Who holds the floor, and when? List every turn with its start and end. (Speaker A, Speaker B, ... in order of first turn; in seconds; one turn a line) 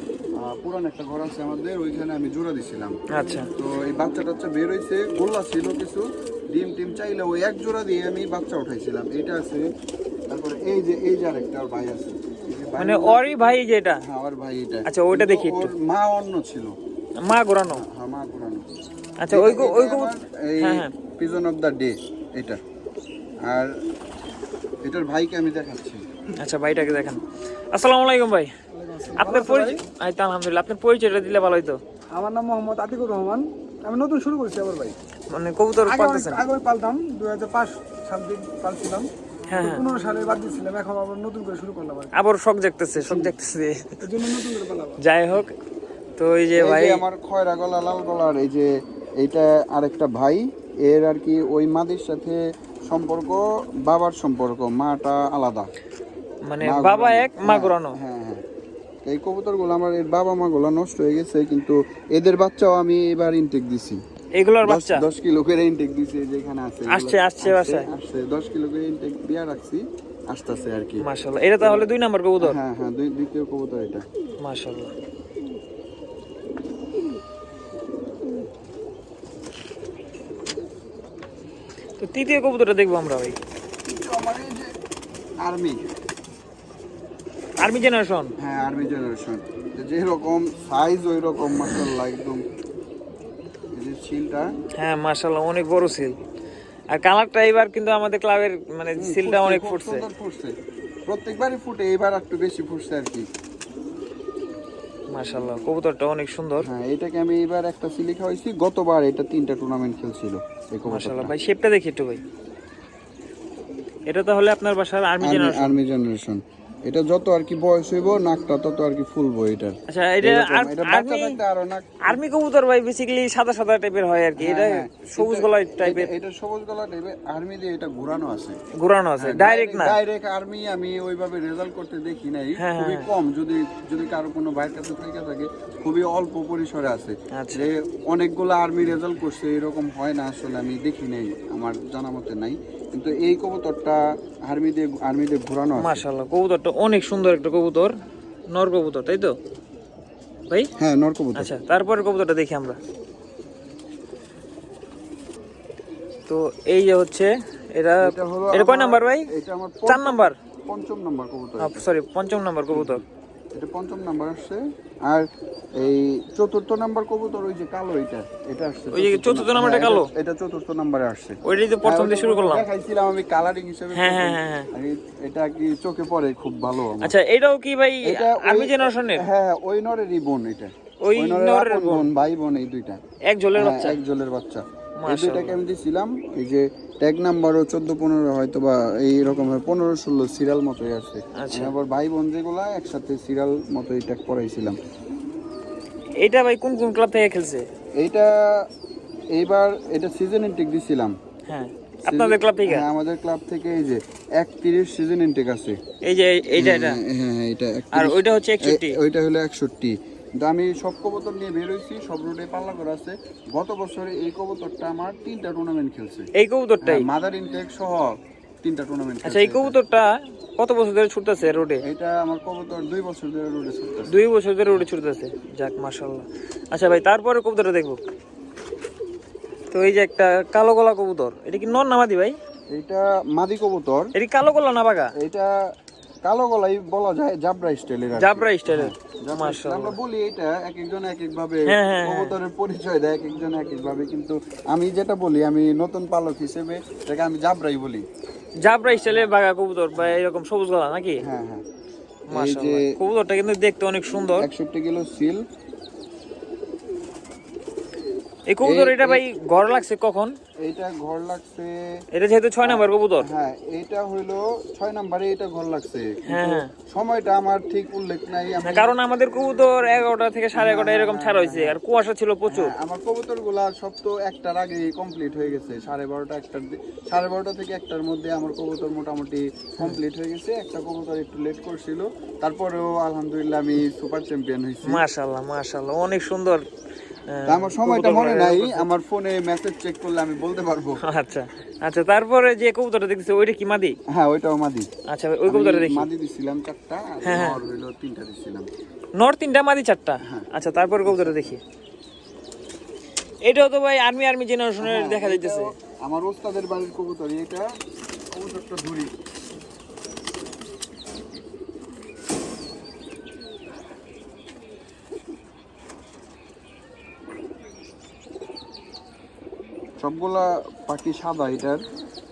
Speaker A: 0.4-3.0
Speaker B: 3.1-3.5
Speaker A: 3.5-9.7
Speaker A: 10.3-16.7
Speaker B: 12.8-14.0
Speaker B: 14.9-15.7
Speaker B: 17.2-17.8
Speaker A: 17.7-18.7
Speaker B: 19.2-20.9
Speaker A: 19.3-22.6
Speaker A: 23.5-23.7
Speaker A: 24.8-26.0
Speaker B: 26.4-27.2
Speaker B: 27.7-28.5
Speaker C: 28.7-29.8
Speaker B: 29.2-31.8
Speaker C: 32.1-35.0
Speaker B: 35.3-36.4
Speaker C: 35.8-42.1
Speaker B: 39.5-39.9
Speaker B: 42.1-44.1
Speaker C: 43.0-43.3
Speaker C: 44.0-45.0
Speaker B: 45.0-45.5
Speaker B: 46.2-47.0
Speaker A: 46.6-48.7
Speaker A: 49.2-55.7
Speaker B: 56.5-58.0
Speaker A: 56.6-58.4
Speaker A: 59.1-64.0
Speaker B: 64.4-65.0
Speaker A: 64.6-71.0
Speaker B: 66.9-67.9
Speaker B: 71.0-72.6
Speaker A: 71.6-71.9
Speaker A: 72.4-74.0
Speaker B: 74.4-74.9
Speaker B: 82.0-83.3
Speaker A: 83.8-84.7
Speaker A: 85.4-85.8
Speaker B: 87.6-88.3
Speaker A: 88.4-92.4
Speaker A: 93.8-94.5
Speaker B: 94.8-96.2
Speaker B: 96.9-100.0
Speaker A: 99.0-100.5
Speaker A: 101.1-103.3
Speaker B: 105.1-106.7
Speaker A: 106.6-111.3
Speaker B: 110.9-112.2
Speaker B: 114.1-115.8
Speaker A: 115.2-122.2
Speaker B: 119.9-121.4
Speaker B: 122.1-126.1
Speaker A: 124.4-128.6
Speaker B: 128.8-130.0
Speaker A: 129.2-146.0
Speaker B: 132.6-133.1
Speaker B: 137.3-137.7
Speaker B: 145.8-147.9
Speaker B: 148.5-149.3
Speaker A: 150.8-151.5
Speaker B: 151.4-152.8
Speaker B: 156.3-159.3
Speaker A: 158.0-161.9
Speaker B: 159.9-160.3
Speaker B: 161.6-163.0
Speaker A: 162.7-177.1
Speaker B: 168.9-170.1
Speaker B: 171.4-172.7
Speaker B: 173.9-174.7
Speaker B: 177.0-179.2
Speaker A: 178.0-183.0
Speaker B: 181.0-182.1
Speaker B: 183.3-184.0
Speaker A: 183.6-194.8
Speaker B: 185.0-185.6
Speaker B: 191.4-191.7
Speaker B: 196.2-197.7
Speaker A: 198.0-198.7
Speaker A: 199.3-201.2
Speaker B: 201.5-202.8
Speaker A: 202.1-205.8
Speaker B: 206.0-207.0
Speaker A: 206.6-216.3
Speaker B: 207.9-209.0
Speaker B: 216.3-217.1
Speaker A: 216.8-219.8
Speaker B: 219.2-221.8
Speaker A: 221.8-224.2
Speaker B: 224.1-228.0
Speaker B: 229.7-232.4
Speaker A: 232.7-234.1
Speaker B: 234.2-235.1
Speaker A: 235.2-235.5
Speaker A: 236.3-248.1
Speaker B: 238.2-240.0
Speaker B: 241.7-242.4
Speaker B: 248.7-251.2
Speaker A: 248.9-249.3
Speaker A: 251.2-251.6
Speaker B: 252.3-254.5
Speaker A: 252.3-252.9
Speaker A: 254.4-255.4
Speaker B: 258.5-260.4
Speaker A: 258.6-259.2
Speaker A: 260.6-261.7
Speaker B: 262.1-263.3
Speaker A: 262.6-269.0
Speaker B: 266.3-266.7
Speaker B: 268.6-272.7
Speaker A: 270.6-271.8
Speaker A: 272.5-285.0
Speaker B: 284.9-286.6
Speaker B: 287.3-288.9
Speaker A: 287.5-291.0
Speaker B: 291.0-294.0
Speaker A: 294.1-294.9
Speaker B: 295.1-296.1
Speaker A: 295.5-298.7
Speaker B: 297.2-297.6
Speaker B: 299.2-301.6
Speaker A: 301.1-301.3
Speaker B: 303.4-305.7
Speaker A: 304.8-307.7
Speaker A: 308.3-309.1
Speaker A: 320.0-321.8